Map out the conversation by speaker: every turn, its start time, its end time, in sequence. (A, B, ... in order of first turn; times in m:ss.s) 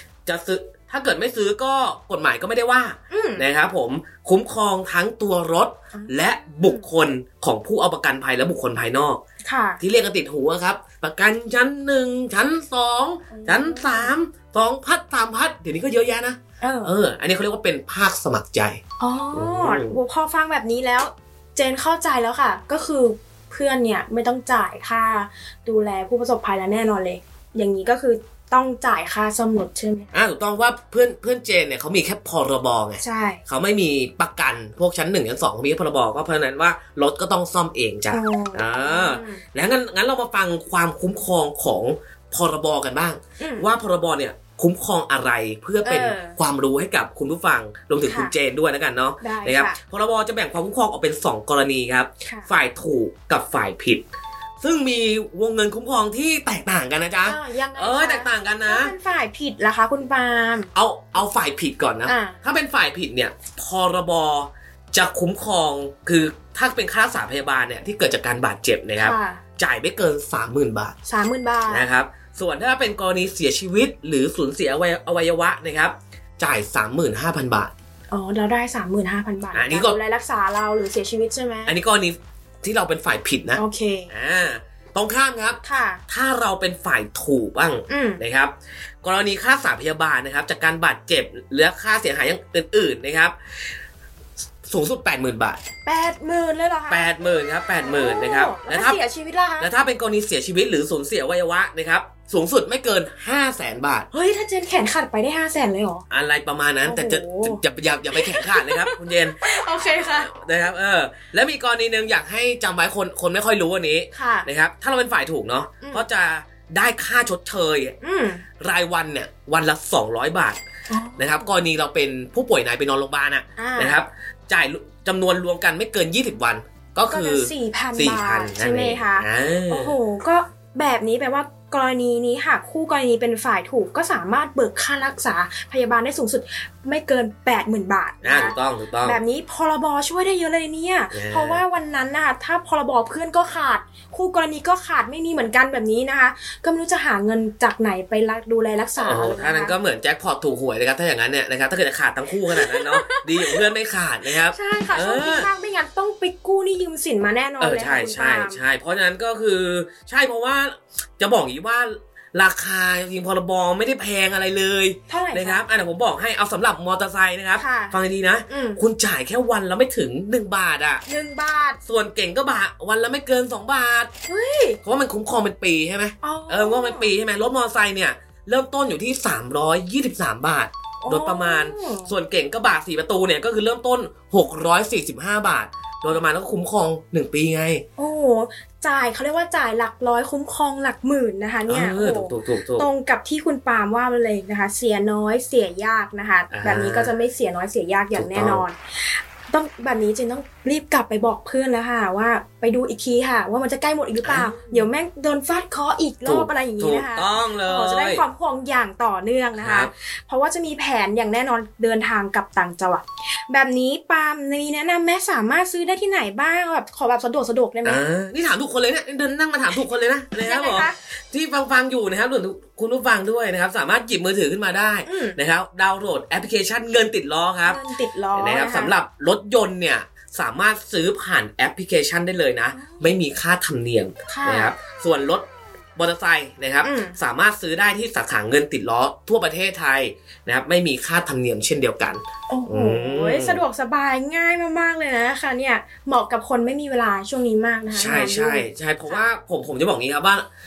0:00.3-0:09.2 A
0:03.1-0:03.5 B
0:05.9-0:06.9 B
0:09.4-0:09.8 B
0:09.8-0:18.8 A
0:13.3-0:14.2 B
0:16.6-0:17.0 B
0:19.0-0:30.1 B
0:19.3-0:20.0 A
0:30.1-0:54.0 A
0:33.0-0:33.4 B
0:38.1-0:39.4 B
0:43.4-0:43.7 B
0:45.8-0:46.4 B
0:48.0-0:48.3 B
0:49.2-0:49.8 B
0:52.2-0:52.5 B
0:54.6-0:58.9 A
0:57.2-1:00.7 B
1:00.8-1:11.0 A
1:02.1-1:02.4 B
1:09.0-1:09.4 B
1:11.1-1:11.9 B
1:11.7-1:17.7 A
1:18.1-1:21.8 B
1:19.5-1:20.0 A
1:21.7-1:33.4 A
1:23.5-1:24.1 B
1:25.6-1:26.0 B
1:27.9-1:28.2 B
1:34.6-1:35.6 A
1:35.8-1:37.1 B
1:36.9-1:39.0 A
1:37.8-1:39.7 B
1:39.6-1:44.1 A
1:44.1-1:46.0 B
1:46.1-1:49.4 A
1:46.9-1:47.6 B
1:48.1-1:50.3 B
1:50.1-1:57.9 A
1:54.1-1:54.5 B
1:58.0-1:58.4 B
1:58.6-2:00.6 A
2:00.9-2:01.5 B
2:01.2-2:10.0 A
2:03.6-2:04.0 B
2:07.1-2:29.8 B
2:18.2-2:19.2 A
2:21.1-2:21.6 A
2:29.0-2:35.5 A
2:32.5-2:33.7 B
2:34.5-2:38.6 B
2:37.6-2:51.0 A
2:45.1-2:45.6 B
2:47.6-2:48.8 B
2:51.1-2:51.8 B
2:51.9-2:54.1 A
2:54.3-2:54.8 B
2:54.8-3:07.8 A
2:56.2-2:57.1 B
3:01.0-3:02.1 B
3:08.0-3:38.0 B
3:11.7-3:12.9 A
3:16.5-3:17.1 A
3:18.1-3:18.6 A
3:24.2-3:24.8 A
3:26.2-3:28.2 A
3:29.6-3:29.9 A
3:37.8-3:47.8 A
3:40.4-3:41.0 B
3:45.0-3:45.4 B
3:47.6-3:49.0 B
3:48.3-3:55.5 A
3:52.7-3:53.2 B
3:54.3-3:54.7 B
3:56.0-4:03.6 A
3:56.8-3:57.2 B
4:02.5-4:09.3 B
4:07.9-4:10.5 A